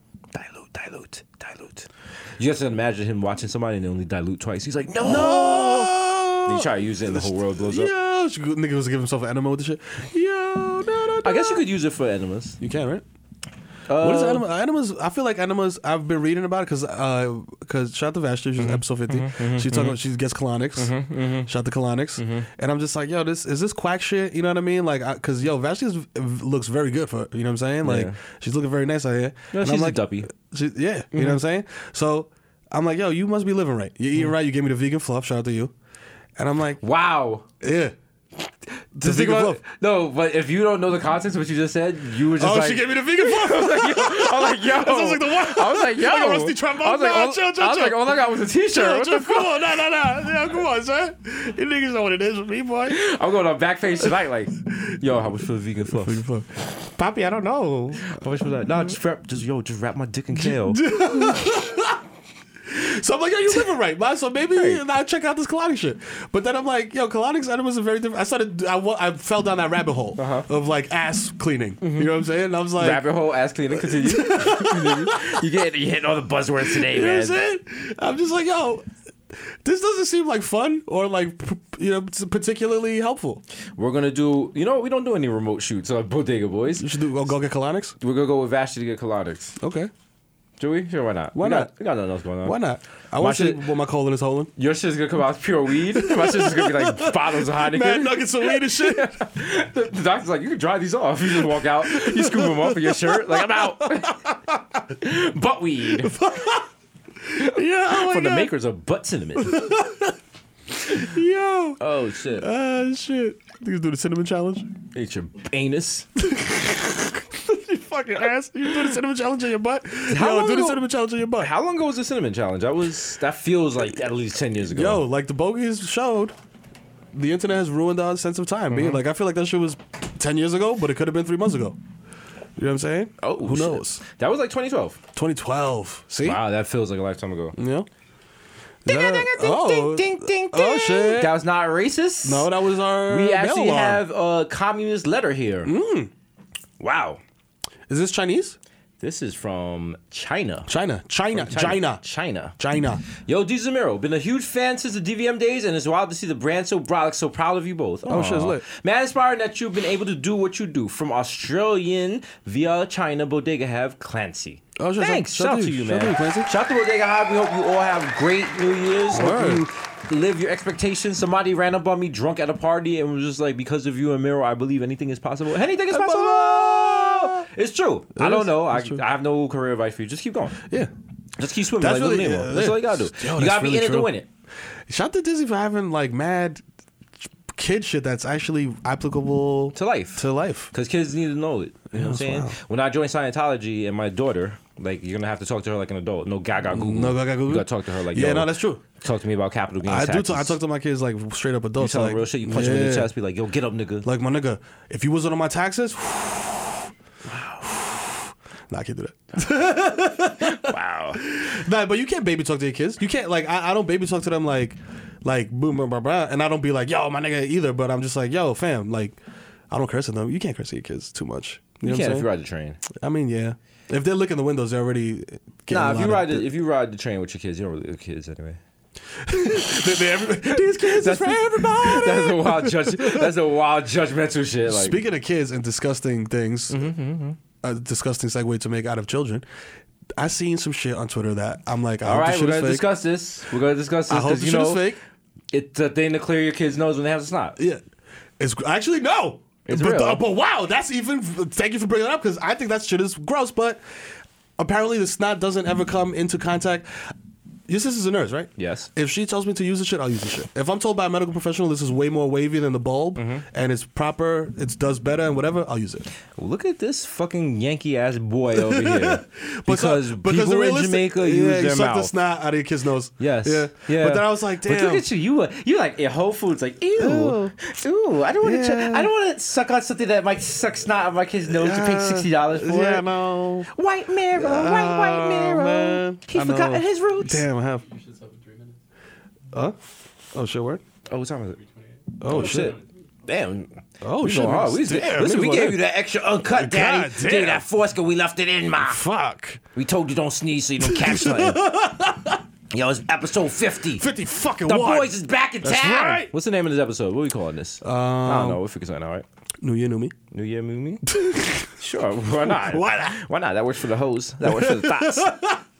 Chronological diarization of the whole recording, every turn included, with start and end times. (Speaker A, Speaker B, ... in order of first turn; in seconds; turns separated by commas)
Speaker A: 0.3-5.9, Speaker B: 5.0-11.7, Speaker A: 6.5-7.9, Speaker A: 11.2-12.6, Speaker B: 12.6-13.0, Speaker A: 13.9-14.5, Speaker B: 14.0-35.7, Speaker A: 18.6-20.0, Speaker A: 20.8-21.5, Speaker A: 22.2-22.5, Speaker A: 27.8-28.2, Speaker A: 29.5-30.3, Speaker A: 31.1-31.4, Speaker B: 36.4-36.8, Speaker A: 36.8-37.5, Speaker B: 37.6-37.9, Speaker B: 39.0-39.6, Speaker A: 39.0-49.7, Speaker B: 42.4-53.0, Speaker A: 52.9-56.2, Speaker B: 55.9-58.2, Speaker A: 58.0-60.9, Speaker B: 60.4-62.0, Speaker B: 62.7-73.0, Speaker A: 64.5-64.8, Speaker A: 70.2-70.5, Speaker A: 71.8-72.1, Speaker A: 72.8-77.4, Speaker B: 73.8-75.4, Speaker B: 76.6-83.4, Speaker A: 83.8-86.9, Speaker B: 86.8-88.0, Speaker A: 88.0-89.6, Speaker B: 89.6-89.9, Speaker A: 90.6-92.6, Speaker B: 91.3-91.7, Speaker B: 92.4-94.5, Speaker A: 93.2-93.7, Speaker A: 94.6-104.2, Speaker B: 95.9-99.2, Speaker B: 101.7-104.9, Speaker A: 105.0-106.2, Speaker B: 106.0-106.7, Speaker B: 107.2-108.5, Speaker A: 107.3-109.7, Speaker B: 109.4-110.2, Speaker B: 110.7-111.8, Speaker A: 111.8-112.5, Speaker B: 112.4-114.7, Speaker A: 114.9-116.1, Speaker B: 116.2-121.5, Speaker A: 120.1-120.9, Speaker A: 121.4-125.0, Speaker B: 124.7-126.3, Speaker B: 127.1-131.8, Speaker A: 128.7-129.0, Speaker B: 132.6-134.0, Speaker A: 133.2-135.0, Speaker B: 135.2-136.4, Speaker A: 136.2-137.6, Speaker B: 137.6-137.9, Speaker B: 138.8-141.3, Speaker A: 138.9-142.5, Speaker B: 142.2-144.0, Speaker A: 143.1-145.7, Speaker B: 145.7-146.1, Speaker A: 146.8-147.2, Speaker B: 147.9-148.6, Speaker A: 149.0-150.7, Speaker B: 150.7-152.0, Speaker A: 151.3-152.6, Speaker B: 152.6-153.0, Speaker A: 153.1-180.6, Speaker B: 158.1-158.7, Speaker B: 164.8-166.5, Speaker B: 169.1-169.7, Speaker B: 175.9-177.4, Speaker B: 178.2-179.0, Speaker A: 181.4-184.3, Speaker B: 181.8-184.1, Speaker B: 184.9-186.6, Speaker B: 187.2-190.7, Speaker A: 189.7-200.6, Speaker B: 191.9-192.6, Speaker B: 196.7-198.8, Speaker B: 199.8-203.1, Speaker A: 201.8-204.1, Speaker B: 204.0-206.9, Speaker A: 207.3-207.6, Speaker B: 207.6-219.2, Speaker A: 210.4-211.2, Speaker B: 219.7-222.3, Speaker A: 221.8-222.8, Speaker B: 222.9-226.5, Speaker A: 225.7-228.6, Speaker B: 229.2-233.3, Speaker A: 230.1-235.0, Speaker B: 234.7-236.8, Speaker A: 236.7-237.4, Speaker B: 237.6-239.4, Speaker B: 240.2-242.9, Speaker A: 242.1-244.9, Speaker B: 244.1-245.0, Speaker A: 245.5-247.6, Speaker B: 247.6-247.8, Speaker B: 248.4-253.8, Speaker A: 249.7-250.2, Speaker B: 254.6-257.1, Speaker B: 257.7-266.1, Speaker A: 258.6-258.9, Speaker A: 263.2-263.4, Speaker A: 266.4-272.1, Speaker B: 268.5-275.1, Speaker A: 273.2-283.1, Speaker B: 277.0-277.5, Speaker B: 278.4-279.1, Speaker B: 281.5-283.7, Speaker A: 283.7-287.4, Speaker B: 284.3-287.9, Speaker C: 287.7-288.8, Speaker B: 290.3-290.8, Speaker A: 291.1-291.6, Speaker C: 291.5-292.9, Speaker B: 292.2-292.8, Speaker A: 292.2-299.0, Speaker B: 294.0-295.8, Speaker B: 296.5-297.6, Speaker B: 298.8-299.6, Speaker A: 299.8-301.7, Speaker B: 300.8-302.4, Speaker A: 302.7-304.1, Speaker B: 303.9-306.3, Speaker A: 304.6-309.3, Speaker B: 307.8-308.6, Speaker B: 309.6-310.1, Speaker A: 310.3-311.1, Speaker B: 311.1-311.8, Speaker A: 311.8-315.3, Speaker B: 312.5-313.2, Speaker B: 314.4-315.6